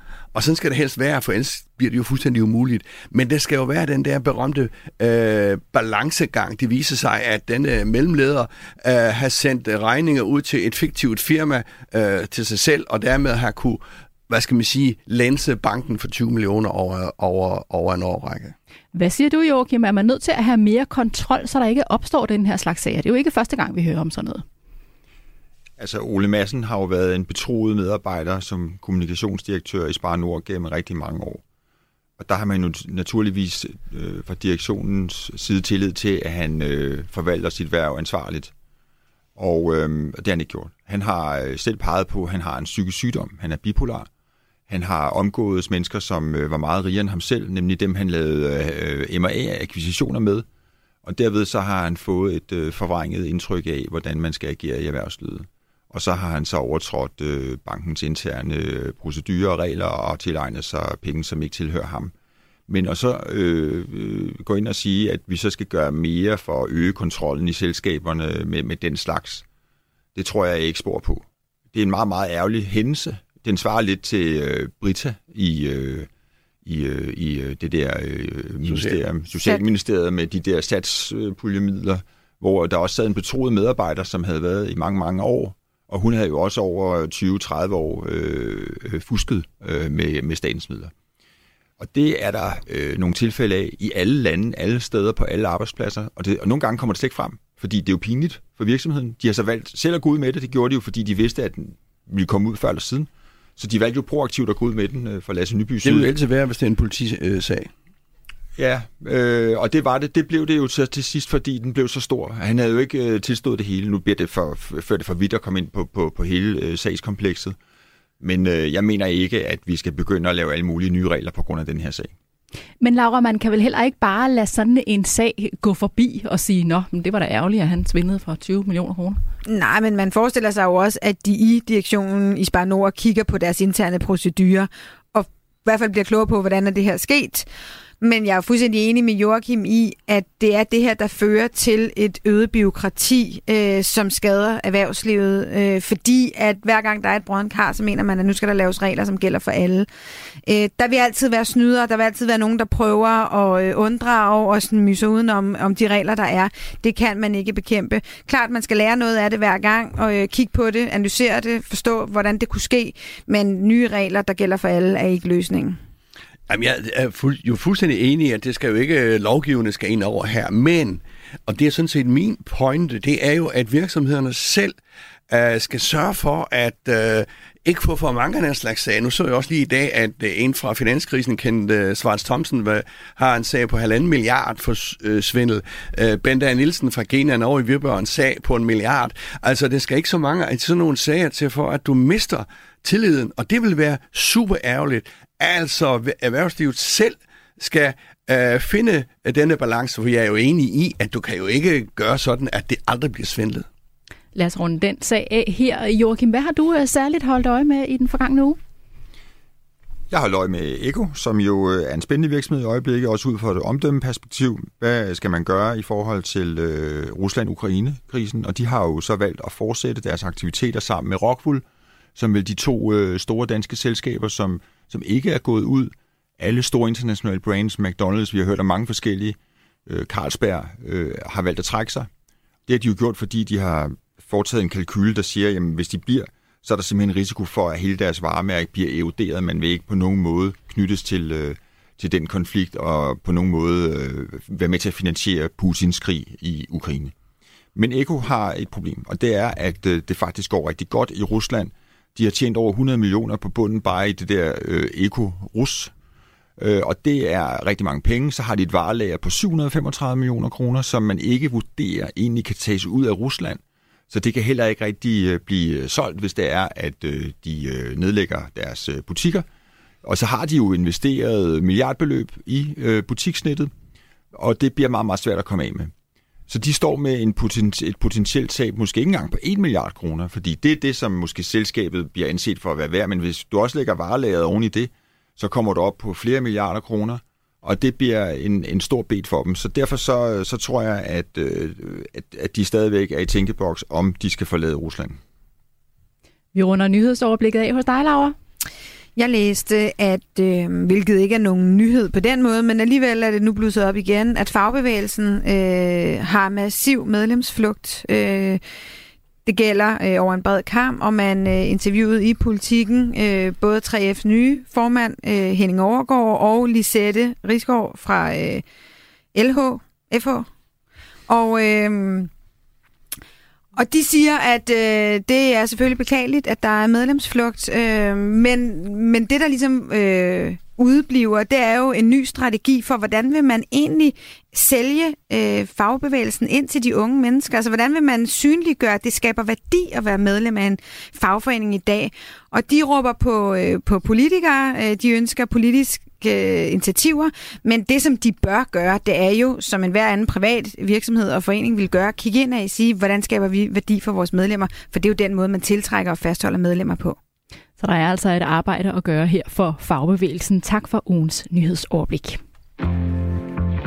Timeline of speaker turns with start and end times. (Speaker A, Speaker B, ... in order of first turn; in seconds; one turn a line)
Speaker A: 0.3-18.6
Speaker B: 18.9-24.4
Speaker C: 25.8-31.4
Speaker C: 32.2-38.5
Speaker C: 39.4-44.1
Speaker C: 44.7-50.5
Speaker C: 51.0-62.1
Speaker C: 62.7-69.4
Speaker C: 70.1-76.1
Speaker C: 76.6-90.9
Speaker A: 78.7-79.0
Speaker C: 91.8-106.1
Speaker A: 105.8-107.7
Speaker C: 108.6-117.6
Speaker C: 118.2-122.1
Speaker B: 122.8-129.2
Speaker D: 129.5-137.5
Speaker D: 138.0-149.9
Speaker D: 150.4-165.8
Speaker A: 166.5-174.7
Speaker A: 175.3-203.7
Speaker B: 204.3-208.6
Speaker C: 210.1-221.6
Speaker C: 222.2-232.1
Speaker C: 232.7-247.1
Speaker C: 247.8-255.9
Speaker C: 256.6-269.5
Speaker C: 270.0-273.7
Speaker C: 274.3-275.9
Speaker C: 276.5-295.2
Speaker B: 296.5-298.4
Speaker D: 299.1-308.6
Speaker D: 309.5-318.6
Speaker D: 319.3-320.5
Speaker D: 321.3-322.3
Speaker D: 323.8-357.2
Speaker B: 357.8-362.4